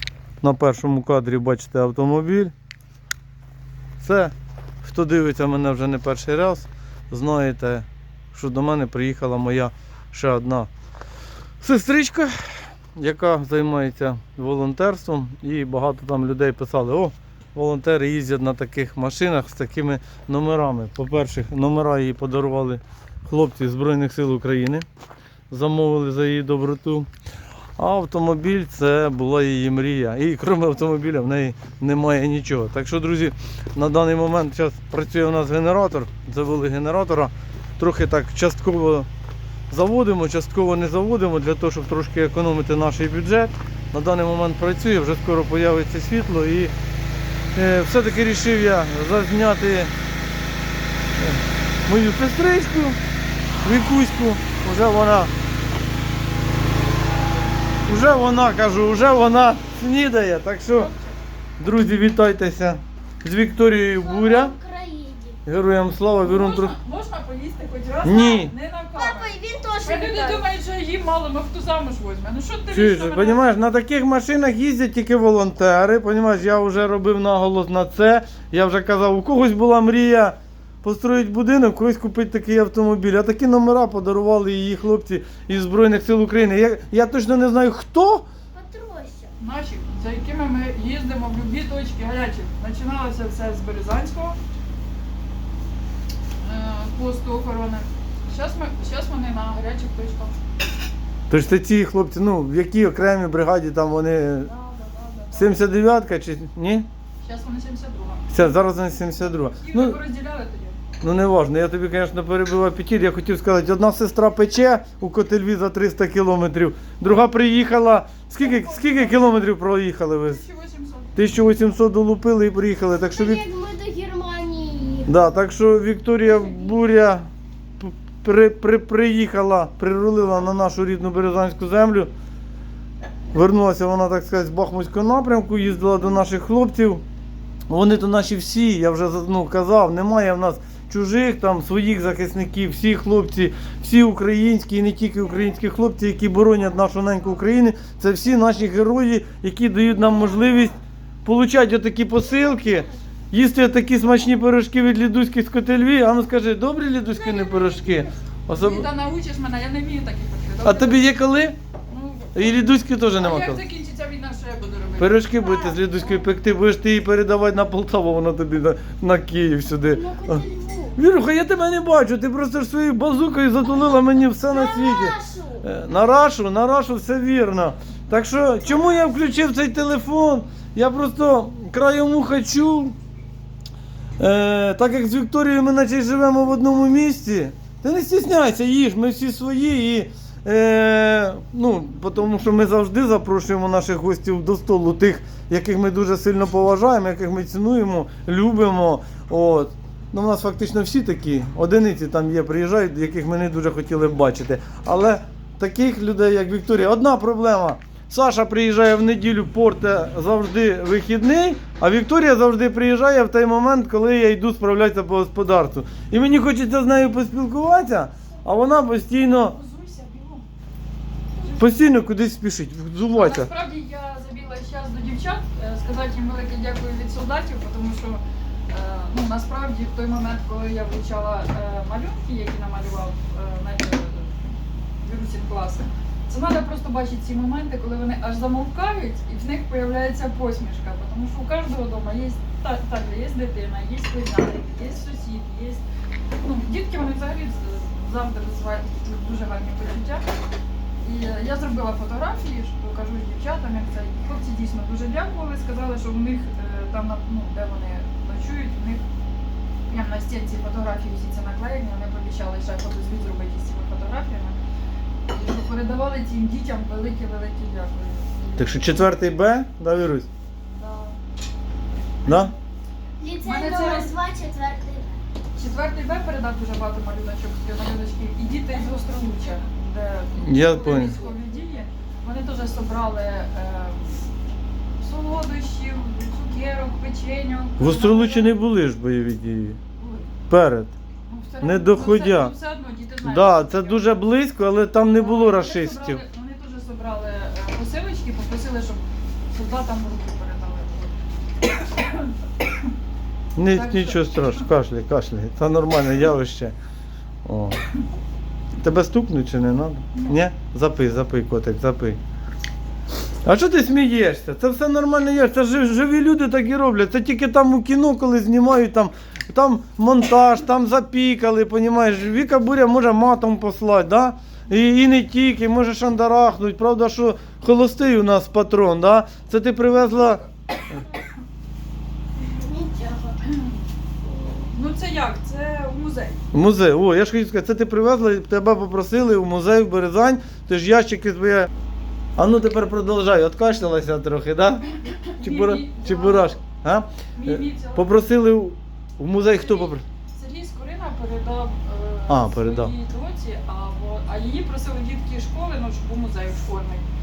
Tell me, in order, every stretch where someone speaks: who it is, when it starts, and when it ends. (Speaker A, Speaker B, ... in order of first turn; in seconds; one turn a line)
Speaker A: 0.4-2.5
Speaker A: 4.0-10.7
Speaker A: 11.6-24.9
Speaker A: 25.5-27.1
Speaker A: 27.8-39.1
Speaker A: 39.7-46.7
Speaker A: 47.5-49.9
Speaker A: 51.2-53.0
Speaker A: 53.6-55.3
Speaker A: 57.9-60.9
Speaker A: 61.6-64.5
Speaker B: 63.9-65.4
Speaker A: 65.5-66.7
Speaker C: 66.2-73.4
Speaker A: 68.0-68.5
Speaker B: 69.0-70.4
Speaker A: 72.7-88.3
Speaker B: 88.5-89.3
Speaker C: 89.4-94.4
Speaker C: 96.4-100.4
Speaker A: 101.3-104.5
Speaker C: 104.4-105.7
Speaker A: 105.3-106.9
Speaker C: 107.2-110.8
Speaker A: 108.3-110.0
Speaker A: 111.0-120.4
Speaker C: 118.4-119.4
Speaker C: 120.3-121.1
Speaker A: 121.2-123.4
Speaker B: 123.1-125.1
Speaker A: 125.1-127.3
Speaker C: 126.2-126.7
Speaker A: 127.8-132.1
Speaker A: 133.3-137.0
Speaker A: 137.7-158.9
Speaker B: 157.2-158.1
Speaker C: 158.5-161.1
Speaker A: 160.6-161.6
Speaker C: 161.9-162.6
Speaker A: 162.3-163.6
Speaker C: 163.2-165.8
Speaker A: 165.0-170.4
Speaker B: 169.9-171.0
Speaker A: 171.0-182.9
Speaker B: 174.4-175.7
Speaker A: 184.2-219.6
Speaker C: 219.4-220.5
Speaker C: 221.4-221.8
Speaker A: 221.6-223.5
Speaker C: 223.2-234.4
Speaker C: 235.0-245.8
Speaker C: 246.4-250.2
Speaker C: 251.0-259.0
Speaker C: 259.9-264.6
Speaker C: 265.3-269.1
Speaker A: 268.6-270.3
Speaker C: 270.7-271.2
Speaker A: 272.2-272.5
Speaker B: 273.2-275.2
Speaker C: 273.4-274.1
Speaker C: 275.6-284.3
Speaker A: 280.4-281.2
Speaker C: 285.0-288.6
Speaker A: 287.8-289.8
Speaker C: 290.0-290.3
Speaker A: 290.5-290.9
Speaker C: 291.3-294.2
Speaker A: 291.6-292.5
Speaker A: 293.2-296.2
Speaker C: 295.1-301.2
Speaker C: 301.8-302.3
Speaker A: 303.6-306.7
Speaker C: 303.7-304.6
Speaker A: 307.4-307.8
Speaker A: 308.8-312.2
Speaker A: 313.4-330.4
Speaker B: 332.5-333.4
Speaker C: 334.5-336.4
Speaker A: 336.5-341.7
Speaker A: 342.4-344.8
Speaker C: 345.3-346.6
Speaker A: 345.4-350.0
Speaker C: 347.4-348.3
Speaker C: 349.5-357.1
Speaker A: 352.3-352.9